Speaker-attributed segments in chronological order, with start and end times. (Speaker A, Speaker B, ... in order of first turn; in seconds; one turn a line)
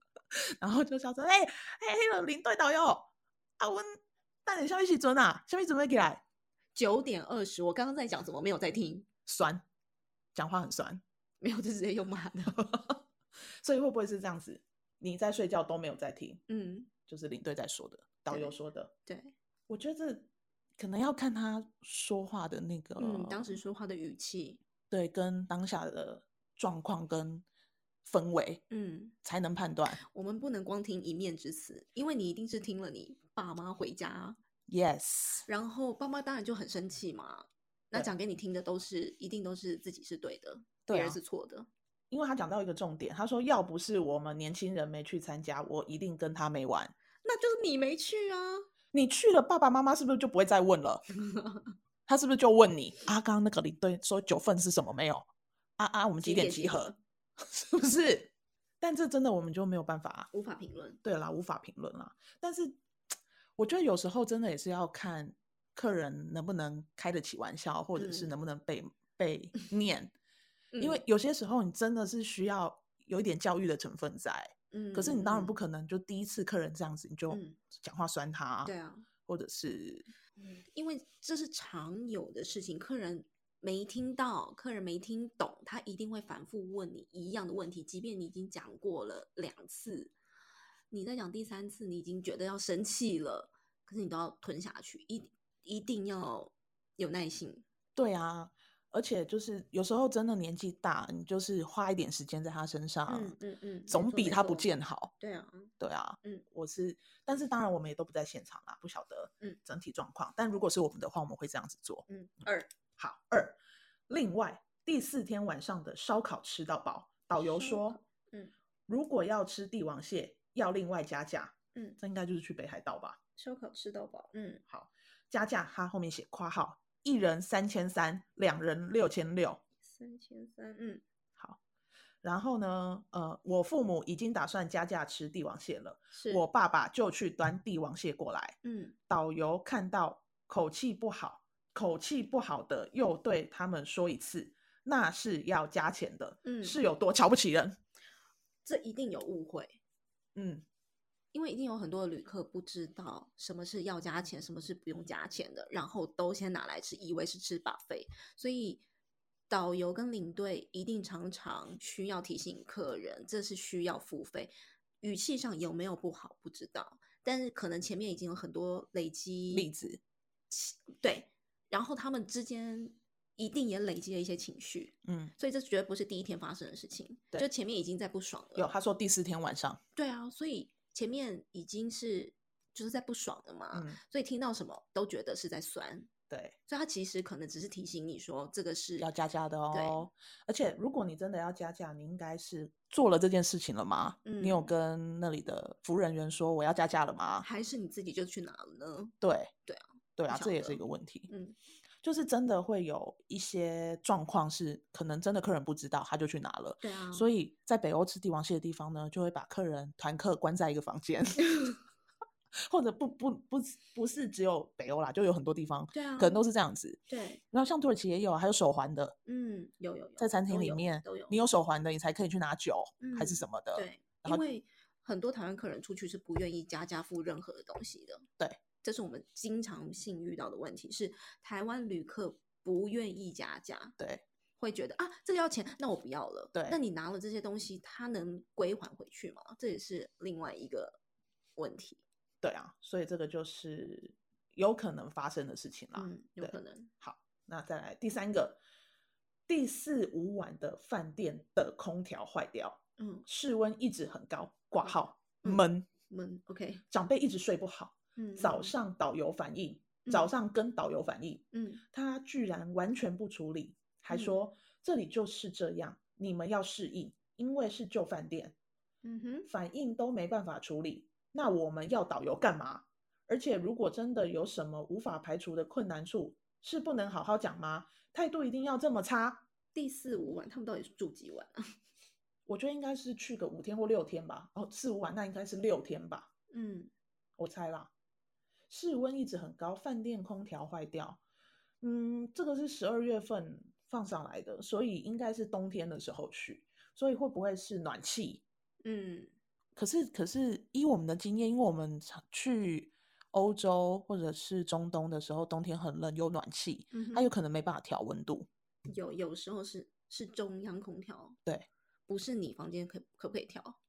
Speaker A: 0.6-6.2
Speaker B: 6.8-9.1
Speaker A: 9.3-9.6
Speaker A: 10.3-11.0
Speaker B: 11.4-12.6
Speaker A: 12.5-13.0
Speaker A: 13.6-16.4
Speaker B: 16.5-16.9
Speaker A: 17.1-18.9
Speaker B: 18.3-18.6
Speaker B: 19.1-19.3
Speaker A: 19.7-23.6
Speaker B: 23.0-24.6
Speaker A: 24.9-27.4
Speaker A: 28.0-28.6
Speaker B: 28.7-29.1
Speaker A: 29.2-30.0
Speaker B: 29.9-34.4
Speaker A: 34.7-35.5
Speaker B: 35.5-41.7
Speaker A: 40.9-41.2
Speaker A: 42.1-46.9
Speaker B: 47.2-48.7
Speaker A: 48.9-51.0
Speaker B: 51.2-51.6
Speaker A: 52.1-55.3
Speaker A: 55.8-60.3
Speaker B: 56.2-57.0
Speaker B: 60.3-61.0
Speaker A: 61.0-62.8
Speaker A: 63.6-70.1
Speaker B: 68.0-68.3
Speaker B: 70.7-71.0
Speaker A: 70.8-78.7
Speaker B: 74.7-75.6
Speaker B: 77.3-77.6
Speaker B: 78.7-79.1
Speaker A: 79.3-80.1
Speaker B: 80.4-90.1
Speaker B: 90.9-97.6
Speaker A: 98.0-103.3
Speaker B: 103.1-106.5
Speaker A: 103.9-105.1
Speaker A: 105.8-112.1
Speaker B: 112.1-112.7
Speaker A: 113.0-118.0
Speaker B: 117.4-118.5
Speaker A: 118.9-123.2
Speaker B: 123.4-124.6
Speaker A: 124.7-129.6
Speaker B: 129.8-131.0
Speaker A: 132.2-138.6
Speaker B: 136.1-136.4
Speaker B: 138.6-139.0
Speaker A: 139.1-147.8
Speaker B: 146.4-146.8
Speaker B: 148.7-149.8
Speaker A: 150.3-150.7
Speaker B: 151.3-158.8
Speaker B: 159.5-169.7
Speaker A: 169.5-170.0
Speaker B: 170.5-178.7
Speaker A: 175.1-175.3
Speaker A: 178.6-179.8
Speaker B: 180.0-186.1
Speaker A: 183.7-184.0
Speaker A: 186.3-186.6
Speaker B: 186.7-189.1
Speaker A: 189.0-197.5
Speaker B: 189.7-190.1
Speaker B: 194.2-194.7
Speaker B: 197.4-199.2
Speaker A: 199.2-199.5
Speaker B: 199.7-201.6
Speaker A: 200.2-201.3
Speaker A: 202.0-211.8
Speaker B: 206.8-207.3
Speaker A: 212.7-217.0
Speaker B: 215.9-216.4
Speaker B: 217.1-217.4
Speaker A: 217.5-219.2
Speaker B: 219.3-221.4
Speaker A: 220.2-224.4
Speaker B: 223.0-228.2
Speaker B: 228.8-234.0
Speaker B: 234.6-241.0
Speaker A: 236.5-236.8
Speaker B: 241.6-242.0
Speaker A: 242.4-248.6
Speaker B: 245.9-246.9
Speaker A: 249.5-255.9
Speaker B: 253.0-253.3
Speaker B: 254.8-256.9
Speaker A: 256.9-268.6
Speaker B: 258.2-258.7
Speaker B: 260.1-260.3
Speaker B: 261.5-261.8
Speaker B: 264.1-264.4
Speaker B: 269.0-269.5
Speaker A: 269.5-279.4
Speaker B: 279.8-281.8
Speaker A: 282.5-286.3
Speaker B: 286.5-286.9
Speaker A: 287.4-287.9
Speaker A: 288.7-291.2
Speaker A: 291.8-298.4
Speaker B: 298.8-299.3
Speaker A: 299.8-308.5
Speaker B: 306.9-307.3
Speaker B: 308.9-311.4
Speaker B: 312.1-313.8